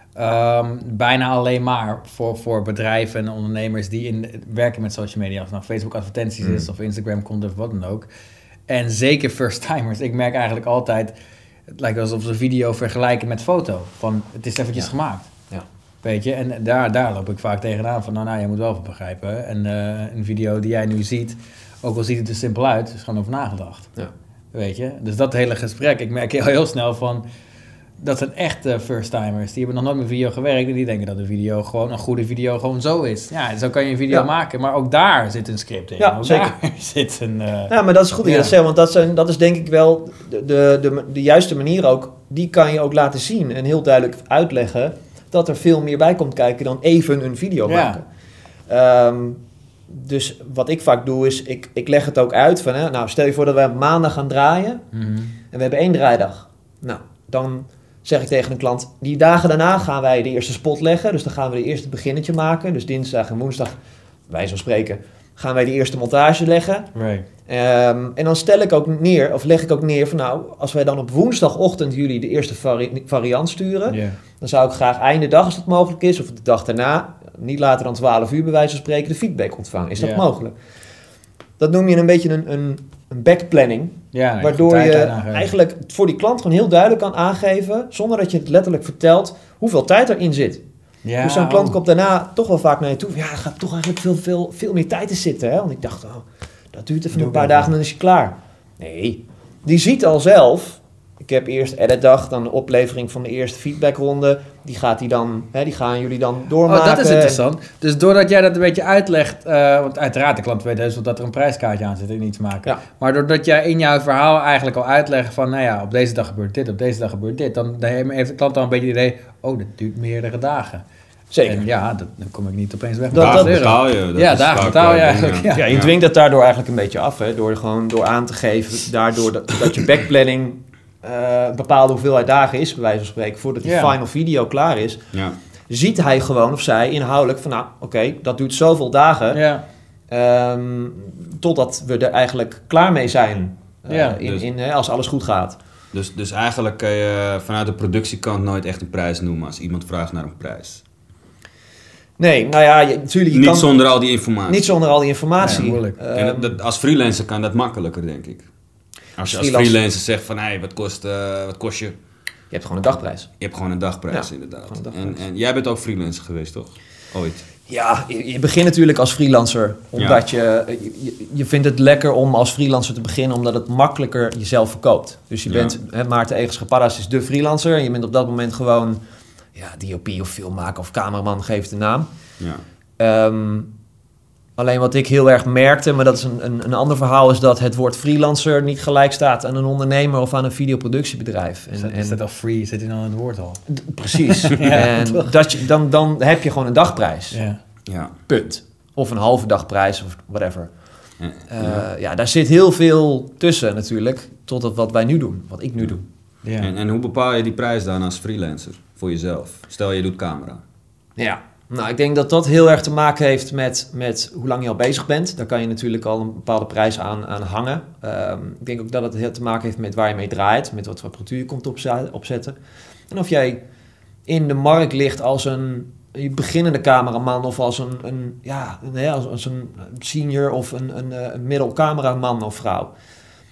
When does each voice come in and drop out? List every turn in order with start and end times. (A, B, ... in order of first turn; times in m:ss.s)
0:00.2-0:08.1 A
0:06.4-0:06.7 B
0:08.7-0:11.1 A
0:11.7-0:15.3 A
0:16.0-0:23.9 A
0:24.5-0:27.2 A
0:28.0-0:38.5 A
0:36.0-0:36.5 B
0:37.7-0:48.0 B
0:47.7-0:48.0 A
0:48.7-0:54.8 B
0:54.9-0:55.4 A
0:55.5-1:03.8 B
1:04.3-1:06.9 B
1:06.9-1:07.2 A
1:07.5-1:20.5 B
1:13.9-1:14.2 A
1:20.0-1:20.2 A
1:21.6-1:30.6 B
1:24.1-1:25.5 A
1:31.0-1:31.8 A
1:31.2-1:47.4 B
1:37.1-1:37.7 A
1:46.7-2:00.8 A
2:01.3-2:01.7 B
2:01.4-2:05.6 A
2:03.1-2:03.6 B
2:03.1-2:05.9 C
2:05.5-2:15.0 B
2:13.6-2:13.9 A
2:15.7-2:19.4 B
2:19.3-2:19.6 A
2:20.1-2:25.6 B
2:23.9-2:24.2 A
2:25.9-2:30.8 C
2:32.2-2:33.7 B
2:33.3-2:34.7 C
2:34.5-2:36.6 B
2:35.4-2:36.0 A
2:35.4-2:38.4 C
2:39.2-2:41.9 C
2:39.2-2:39.8 B
2:42.5-2:43.3 B
2:43.4-2:47.4 C
2:44.1-2:45.2 B
2:47.7-2:59.0 B
2:50.0-2:50.2 C
2:55.4-2:55.8 C
2:59.6-3:02.1 B
3:03.0-3:03.7 B
3:04.6-3:12.2 B
3:11.7-3:15.3 A
3:13.7-3:17.4 B
3:17.3-3:17.6 A
3:17.9-3:18.1 C
3:18.3-3:20.7 B
3:21.2-3:21.8 C
3:21.5-3:26.0 B
3:26.6-3:30.6 C
3:31.2-3:42.6 B
3:43.1-3:43.6 B
3:44.3-3:52.9 B